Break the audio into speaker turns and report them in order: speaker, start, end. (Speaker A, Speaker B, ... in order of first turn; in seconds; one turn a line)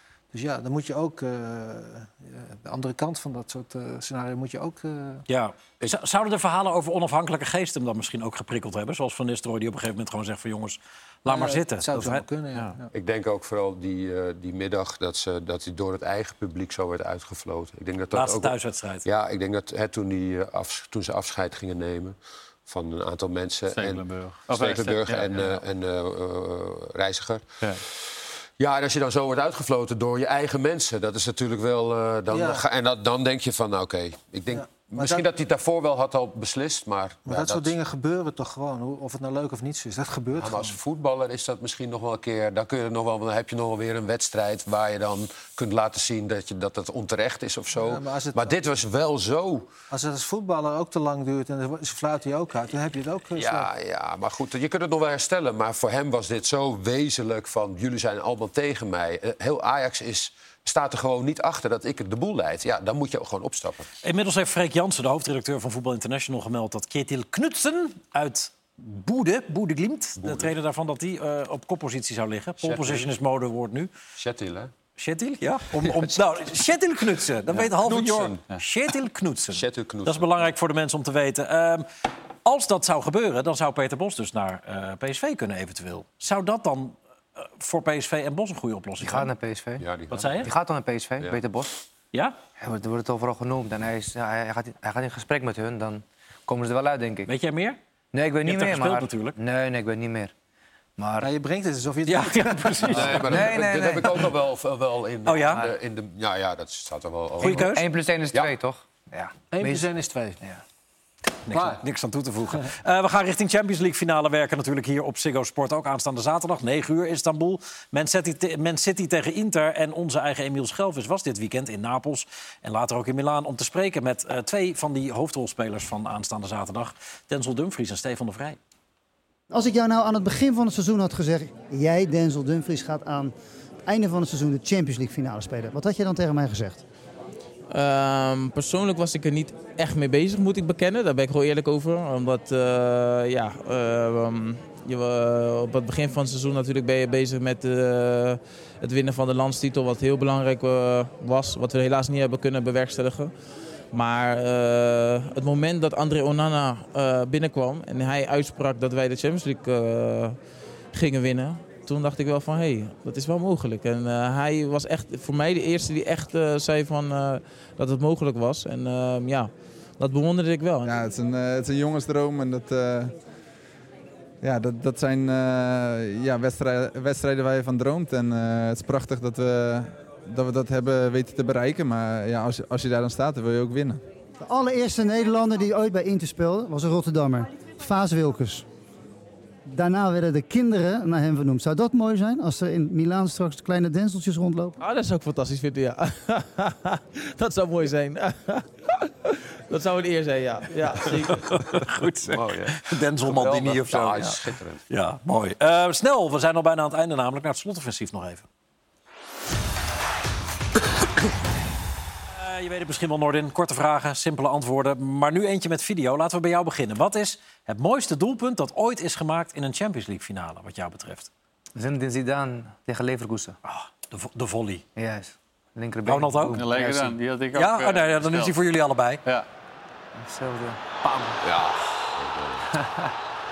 Speaker A: 0.3-5.2
Speaker B: 5.3-12.7
Speaker A: 11.2-12.9
Speaker C: 12.9-37.7
Speaker B: 18.1-19.0
Speaker D: 23.7-25.6
Speaker A: 32.3-32.6
Speaker A: 34.5-35.3
Speaker A: 37.3-40.8
Speaker C: 40.4-49.7
Speaker A: 47.7-48.5
Speaker A: 49.9-53.7
Speaker C: 53.4-63.9
Speaker B: 64.0-73.9
Speaker C: 70.2-70.5
Speaker C: 72.6-73.1
Speaker C: 74.2-74.7
Speaker B: 75.0-81.9
Speaker C: 75.8-76.2
Speaker C: 77.5-78.4
Speaker C: 79.5-80.3
Speaker B: 82.4-89.3
Speaker E: 89.0-89.8
Speaker C: 89.8-90.5
Speaker B: 90.1-90.5
Speaker E: 90.4-91.8
Speaker E: 92.6-97.3
Speaker B: 97.2-97.8
Speaker E: 98.1-100.3
Speaker B: 98.4-99.3
Speaker E: 101.0-101.3
Speaker A: 101.2-103.3
Speaker B: 102.0-103.3
Speaker C: 102.9-107.7
Speaker E: 103.3-104.3
Speaker B: 105.2-105.6
Speaker B: 107.4-107.8
Speaker E: 107.4-109.8
Speaker A: 109.5-110.4
Speaker B: 111.5-128.6
Speaker A: 111.5-111.8
Speaker F: 129.5-133.3
Speaker F: 133.8-136.8
Speaker G: 137.7-153.3
Speaker G: 153.9-160.4
Speaker G: 160.9-170.9
Speaker H: 170.8-173.1
Speaker H: 174.4-184.0
Speaker F: 184.4-188.7
Speaker F: 189.7-194.7
Speaker G: 194.8-201.6
Speaker B: 201.2-204.3
Speaker C: 202.3-204.8
Speaker B: 204.9-208.4
Speaker B: 212.3-221.3
Speaker E: 221.7-223.6
Speaker B: 223.6-224.8
Speaker E: 224.9-227.2
Speaker B: 226.1-226.6
Speaker D: 226.5-228.6
Speaker B: 227.5-229.2
Speaker E: 230.1-231.4
Speaker C: 231.4-232.7